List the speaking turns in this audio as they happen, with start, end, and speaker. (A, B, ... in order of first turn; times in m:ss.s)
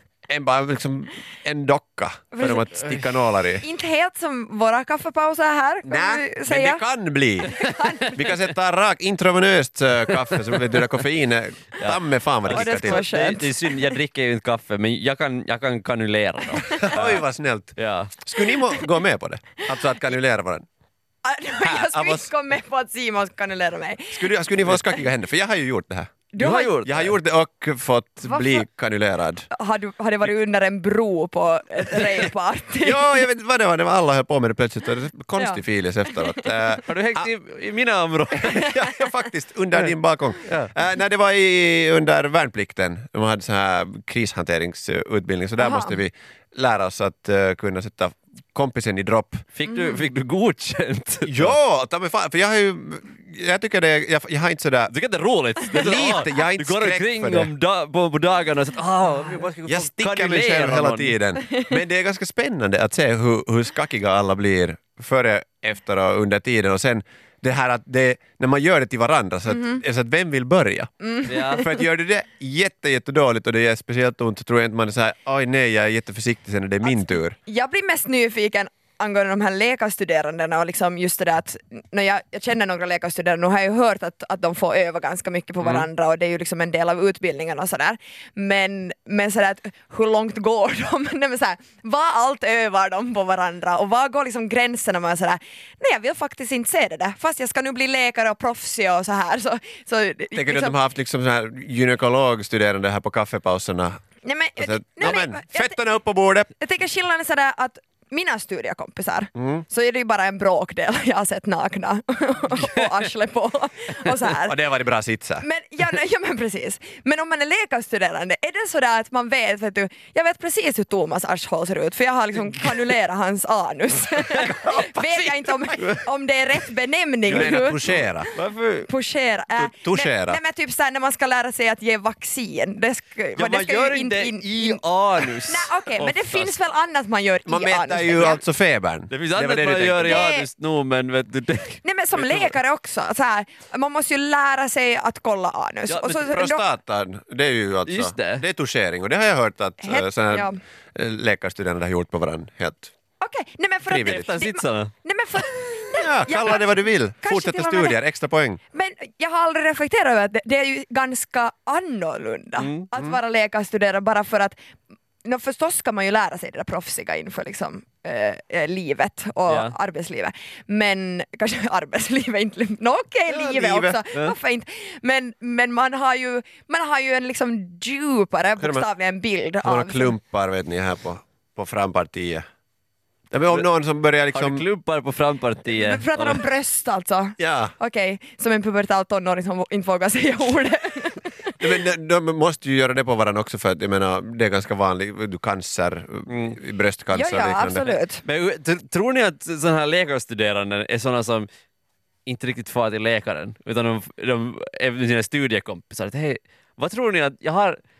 0:00.3-0:03.6 A
0:02.3-0:03.0 B
0:03.6-0:06.8 B
0:05.9-0:07.5 A
0:07.4-0:08.3 B
0:08.1-0:13.1 A
0:10.4-0:10.9 C
0:11.8-0:17.2 C
0:12.5-0:13.6 B
0:16.6-0:17.0 B
0:16.7-0:20.7 A
0:17.8-0:18.2 C
0:21.2-0:24.3 B
0:21.6-0:22.3 A
0:24.1-0:26.1 A
0:26.3-0:26.8 B
0:26.4-0:27.2 C
0:26.8-0:29.5 A
0:28.3-0:28.6 B
0:29.5-0:33.2 B
0:32.8-0:37.3 A
0:36.8-0:38.7 C
0:38.4-0:49.4 A
0:40.4-0:40.7 C
0:45.6-0:46.0 B
0:49.6-0:51.6 C
0:51.2-0:54.9 A
0:54.9-1:01.2 C
0:55.7-0:57.5 A
0:59.6-1:10.9 A
1:09.5-1:09.8 B
1:11.0-1:11.6 B
1:11.3-1:11.7 C
1:11.4-1:17.4 A
1:16.8-1:40.8 B
1:40.4-1:44.0 A
1:44.2-1:45.8 B
1:44.6-1:46.5 A
1:46.6-1:54.6 B
1:49.4-1:49.6 A
1:52.6-1:52.9 C
1:54.2-1:55.4 A
1:55.4-2:07.8 B
2:04.5-2:05.6 A
2:07.3-2:08.3 A
2:08.3-2:08.9 C
2:08.9-2:14.8 B
2:09.6-2:10.4 A
2:13.4-2:16.5 C
2:15.4-2:18.4 B
2:17.5-2:20.2 A
2:19.1-2:22.5 C
2:20.0-2:20.5 B
2:21.8-2:26.6 B
2:25.9-2:26.3 C
2:26.2-2:32.9 A
2:27.9-2:28.4 C
2:29.8-2:30.6 B
2:33.2-2:38.0 B
2:33.9-2:34.3 A
2:34.0-2:34.9 C
2:35.9-2:38.6 A
2:38.7-2:44.6 B
2:42.6-2:42.8 C
2:45.2-3:00.2 B
2:49.5-2:49.7 C
2:53.3-2:54.0 A
2:58.6-2:58.9 A
2:59.6-3:02.5 A
3:03.3-3:04.6 A
3:04.3-3:06.4 C
3:05.7-3:11.6 B
3:07.4-3:07.7 A
3:11.6-3:17.9 A
3:16.3-3:16.6 C
3:17.1-3:18.2 B
3:18.2-3:21.5 C
3:22.3-3:27.8 C